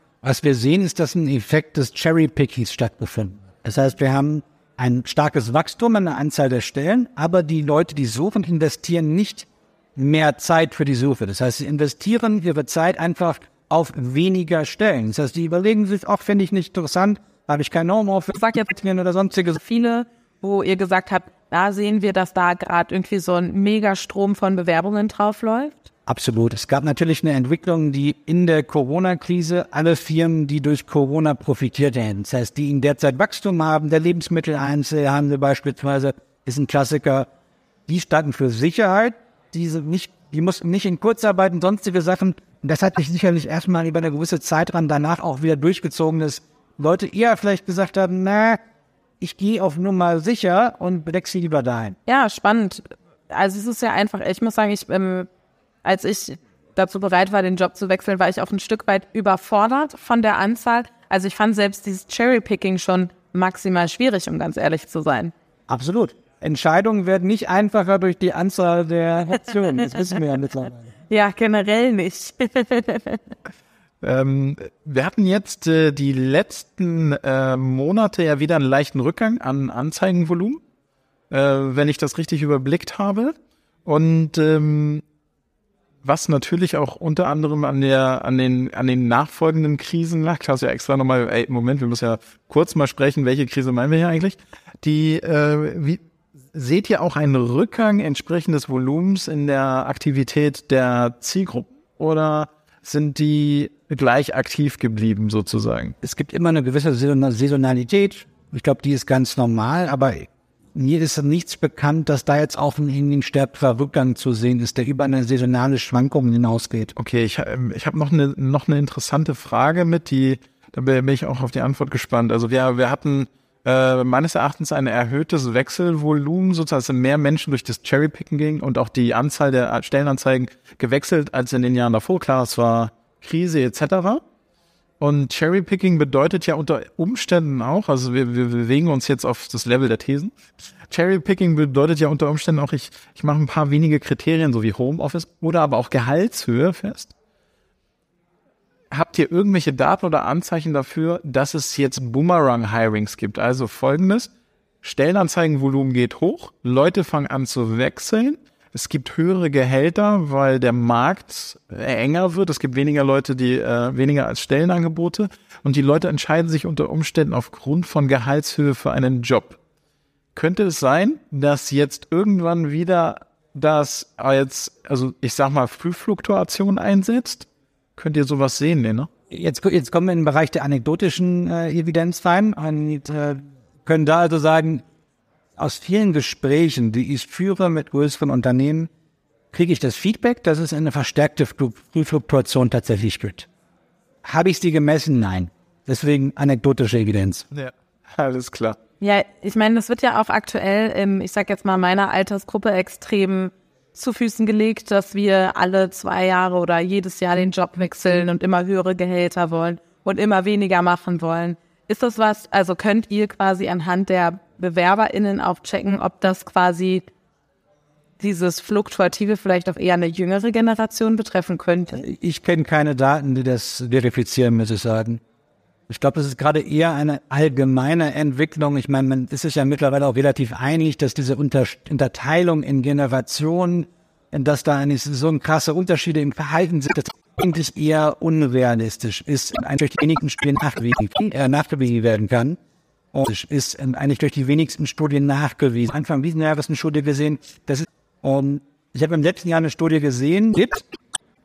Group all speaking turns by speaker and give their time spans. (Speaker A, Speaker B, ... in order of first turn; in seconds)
Speaker A: 0.2-18.3, 26.1-37.3, 37.9-48.6, 49.2-52.0, 65.7-70.9, 106.0-116.9, 179.3-184.8, 185.6-188.9, 189.5-193.5, 194.2-197.5, 221.9-225.2, 225.9-242.6, 243.1-250.8
Speaker B: 18.3-25.9, 52.1-55.3, 55.8-65.3, 71.1-73.2, 199.0-217.1, 218.2-222.0
Speaker C: 74.0-80.6, 81.3-85.0, 86.0-96.0, 96.5-106.0, 117.0-134.2, 135.0-140.3, 140.9-147.1, 148.9-154.3, 154.8-169.6, 170.3-179.1, 197.5-198.8